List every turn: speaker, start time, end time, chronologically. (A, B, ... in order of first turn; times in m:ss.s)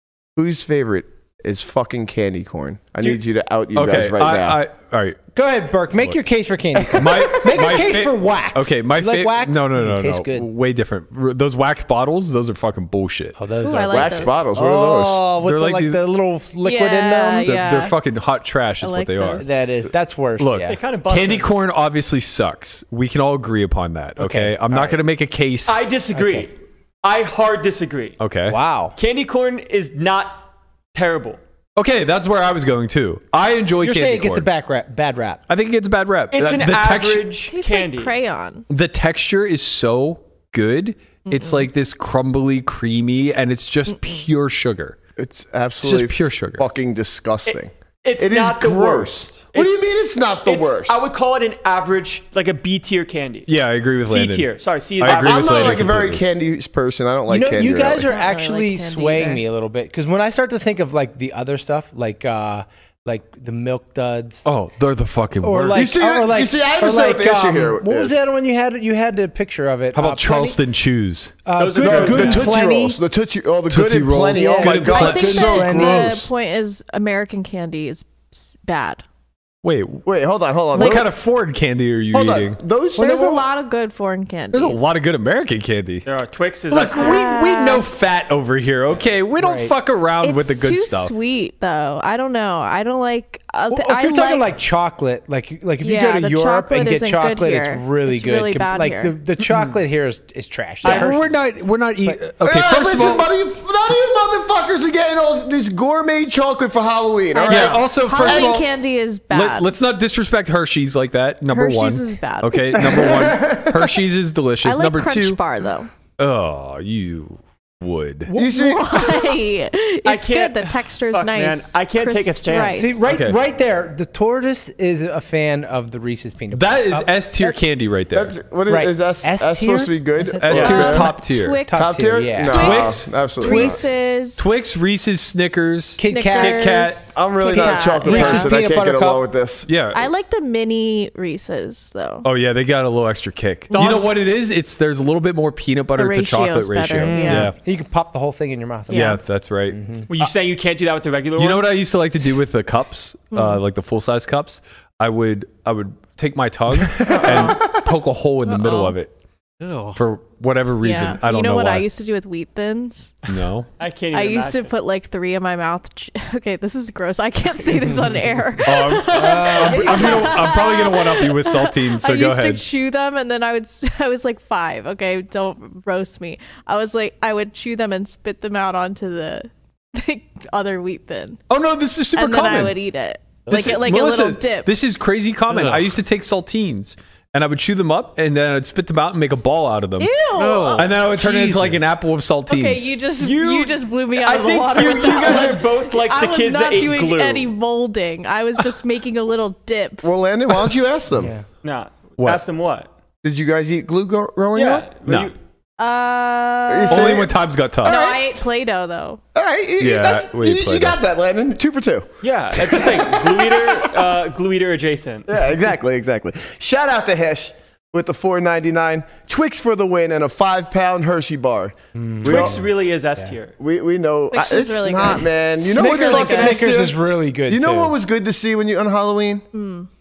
0:00.4-0:04.6 A
0:03.7-0:05.2 B
0:05.3-0:10.5 C
0:06.9-0:07.6 A
0:06.9-0:13.4 B
0:13.4-0:17.6 C
0:13.6-0:14.5 D
0:13.9-0:15.3 A
0:15.3-0:16.0 B
0:16.6-0:18.0 D
0:17.4-0:19.5 B
0:18.8-0:19.5 D
0:19.4-0:20.8 C
0:20.4-0:25.8 B
0:20.7-0:21.5 E
0:24.2-0:25.0 C
0:25.7-0:28.2 E
0:26.2-0:26.5 C
0:28.2-0:28.6 B
0:28.5-0:29.0 C
0:29.0-0:31.4 E
0:31.8-0:34.5 B
0:33.8-0:35.4 C
0:35.5-0:37.3 B
0:36.3-0:38.1 E
0:37.5-0:38.7 D
0:38.7-0:45.0 B
0:41.2-0:41.7 D
0:45.2-0:51.1 A
0:45.8-0:46.7 B
0:47.5-0:49.7 E
0:50.4-0:53.5 E
0:53.5-0:56.2 B
0:54.1-0:55.9 E
0:55.0-0:58.1 A
0:57.3-1:04.4 C
0:58.0-0:59.4 D
1:04.4-1:05.9 B
1:05.4-1:10.6 C
1:05.7-1:08.2 A
1:09.9-1:11.4 B
1:11.4-1:13.0 C
1:11.6-1:12.5 E
1:11.8-1:16.3 A
1:13.7-1:15.5 B
1:13.7-1:16.2 C
1:14.9-1:19.0 D
1:19.6-1:20.0 B
1:20.1-1:21.1 A
1:20.7-1:21.0 D
1:20.7-1:22.6 B
1:22.1-1:23.4 A
1:23.0-1:24.8 D
1:24.5-1:26.1 B
1:26.1-1:27.2 E
1:26.7-1:31.1 B
1:26.9-1:27.9 D
1:29.4-1:29.7 C
1:30.2-1:34.5 D
1:33.7-1:41.4 C
1:35.8-1:39.1 D
1:39.4-1:39.8 B
1:40.8-1:41.1 E
1:40.8-1:43.3 B
1:42.4-1:48.6 A
1:47.3-1:49.7 D
1:47.4-1:48.7 B
1:49.3-1:55.4 B
1:51.5-1:52.8 D
1:52.8-1:53.9 A
1:54.6-1:55.9 D
1:56.2-1:58.3 B
1:58.3-1:58.5 C
1:58.3-1:59.4 A
1:58.4-2:03.0 D
2:00.1-2:02.9 E
2:02.8-2:07.6 C
2:03.1-2:03.4 B
2:06.5-2:08.4 B
2:08.1-2:11.1 A
2:08.7-2:11.1 C
2:10.4-2:11.7 B
2:10.7-2:14.5 D
2:11.7-2:12.7 C
2:11.7-2:13.9 A
2:12.5-2:13.3 B
2:13.4-2:13.9 C
2:14.4-2:17.1 B
2:16.0-2:16.7 C
2:16.0-2:18.5 D
2:17.1-2:19.7 A
2:17.6-2:19.3 C
2:19.7-2:20.1 B
2:19.9-2:22.3 D
2:22.2-2:27.6 B
2:23.7-2:24.2 E
2:26.0-2:27.5 D
2:27.0-2:30.1 C
2:28.9-2:29.2 D
2:28.9-2:29.8 B
2:30.1-2:31.8 E
2:31.4-2:39.1 B
2:33.3-2:33.6 D
2:37.1-2:37.5 E
2:37.1-2:37.7 D
2:37.1-2:37.4 A
2:38.4-2:38.9 D
2:39.6-2:40.1 F
2:39.9-2:41.9 B
2:40.8-2:43.1 D
2:43.3-2:43.7 B
2:43.8-2:44.7 E
2:44.1-3:01.4 D
2:47.8-2:48.1 C
2:48.6-2:52.6 B
2:49.2-2:50.2 C
3:01.5-3:02.8 B
3:02.1-3:04.7 D
3:03.5-3:10.2 B
3:05.5-3:05.8 F
3:10.0-3:10.9 D
3:10.4-3:11.9 F
3:10.8-3:12.9 B
3:11.2-3:11.9 C
3:12.5-3:20.1 D
3:13.2-3:17.5 E
3:20.0-3:21.3 A
3:21.1-3:21.4 C
3:21.6-3:22.9 E
3:23.2-3:24.9 A
3:24.5-3:25.4 E
3:25.1-3:25.3 B
3:25.8-3:27.3 D
3:26.7-3:28.3 A
3:26.9-3:28.0 B
3:27.8-3:29.2 D
3:29.4-3:33.9 A
3:29.8-3:31.0 B
3:32.2-3:35.3 E
3:35.3-3:42.6 A
3:41.9-3:43.3 C
3:42.2-3:43.6 E
3:43.6-3:47.0 A
3:44.3-3:46.6 D
3:45.6-3:47.9 C
3:47.5-3:49.5 A
3:49.5-3:49.9 D